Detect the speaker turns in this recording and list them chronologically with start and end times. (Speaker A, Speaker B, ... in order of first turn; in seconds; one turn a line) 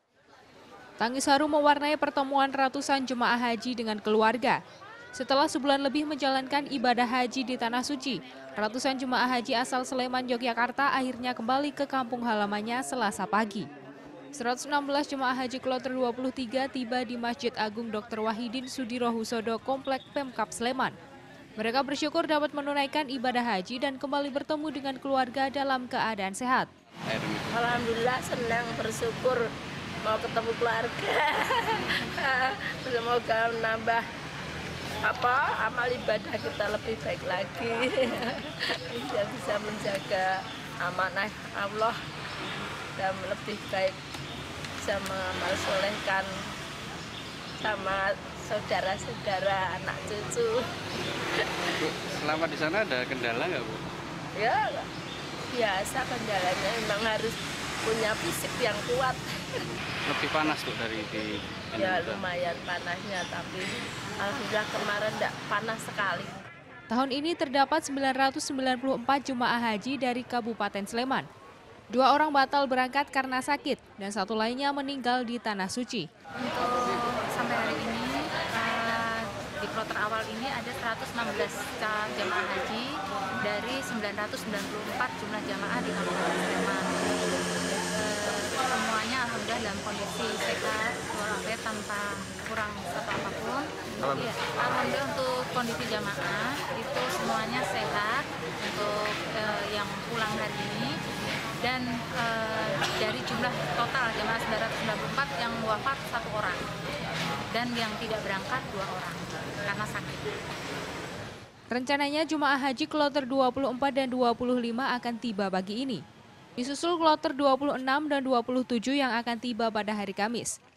Speaker A: 1.0-4.6
Speaker A: 5.2-13.7
Speaker A: 14.3-21.0
Speaker A: 21.6-26.7
Speaker B: 27.1-27.8
Speaker C: 27.5-29.4
Speaker C: 30.1-34.1
Speaker C: 35.0-42.0
Speaker C: 43.0-44.0
Speaker C: 44.8-46.3
Speaker C: 47.6-50.7
Speaker B: 51.8-53.8
Speaker C: 54.4-54.9
Speaker C: 55.5-59.6
Speaker B: 60.0-62.2
Speaker C: 61.8-66.4
Speaker A: 66.9-71.3
Speaker A: 71.9-76.1
Speaker D: 76.4-86.9
Speaker D: 88.0-100.9
Speaker D: 101.6-106.6
Speaker D: 107.5-110.2
Speaker A: 111.7-116.0
Speaker A: 116.6-120.6